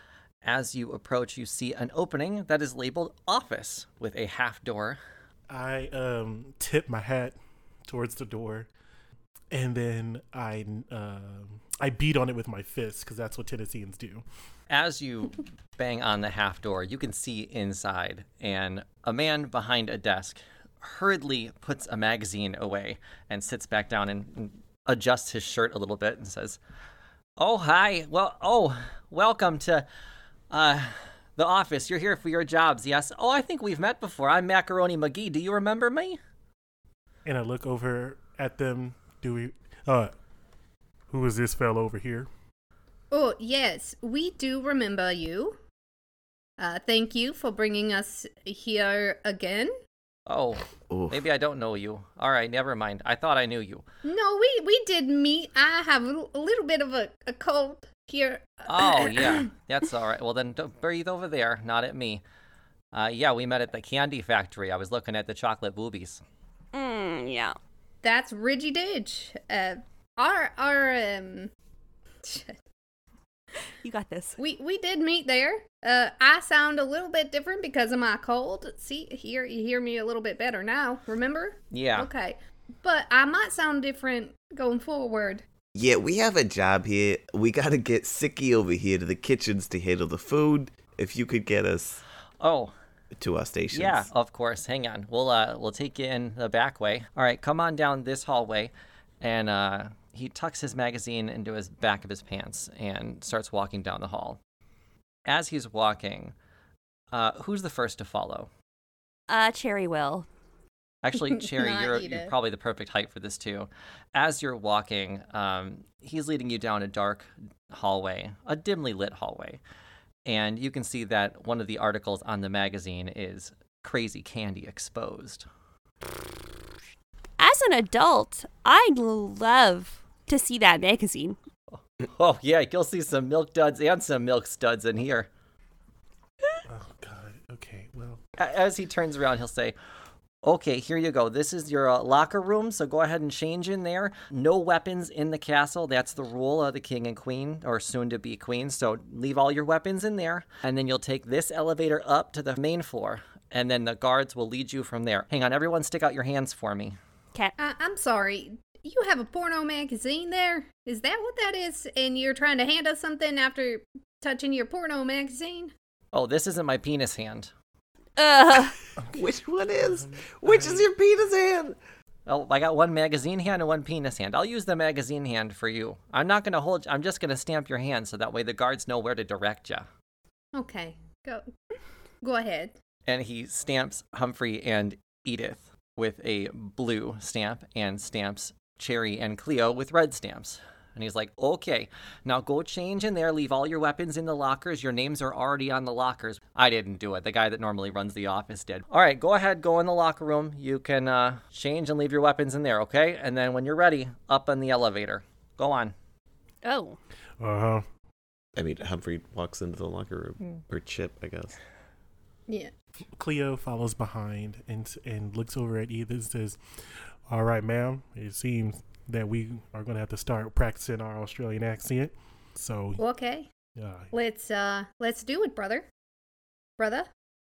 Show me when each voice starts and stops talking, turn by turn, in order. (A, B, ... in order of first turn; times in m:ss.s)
0:00.4-0:05.0 A
0:05.5-0:08.7 B
0:09.5-0:14.2 B
0:14.7-0:26.6 A
0:27.4-0:29.9 A
0:30.5-0:36.2 A
0:37.2-0:40.1 B
0:41.1-0:42.3 B
0:43.1-0:45.6 C
0:46.6-0:49.8 C
0:50.3-0:53.8 A
0:50.9-0:51.2 D
0:54.0-0:59.5 C
0:58.7-1:02.2 A
1:02.9-1:06.2 A
1:06.7-1:07.6 E
1:08.0-1:11.5 C
1:12.2-1:12.6 C
1:13.8-1:14.4 E
1:14.4-1:25.4 C
1:21.7-1:22.1 A
1:25.8-1:32.0 D
1:32.4-1:32.7 A
1:33.2-1:34.1 D
1:33.7-1:44.4 A
1:45.3-1:46.3 A
1:47.1-1:48.5 A
1:49.3-1:50.3 E
1:51.0-1:59.6 A
1:51.3-1:52.3 C
2:00.2-2:05.5 A
2:07.4-2:11.4 E
2:11.7-2:15.3 A
2:16.6-2:18.2 B
2:18.4-2:19.8 A
2:20.4-2:37.0 A
2:37.6-2:45.7 C
2:46.1-2:47.5 A
2:48.2-2:48.8 E
2:49.1-2:51.8 D
2:49.8-2:50.8 B
2:52.3-2:59.9 A
3:00.5-3:01.5 C
3:02.2-3:02.8 C
3:03.1-3:25.9 A
3:26.6-3:27.0 E
3:27.4-3:27.9 B
3:28.6-3:31.6 D
3:33.1-3:43.0 B
3:43.0-3:43.5 C
3:43.8-3:44.1 B
3:44.1-3:45.9 C
3:46.8-3:47.1 C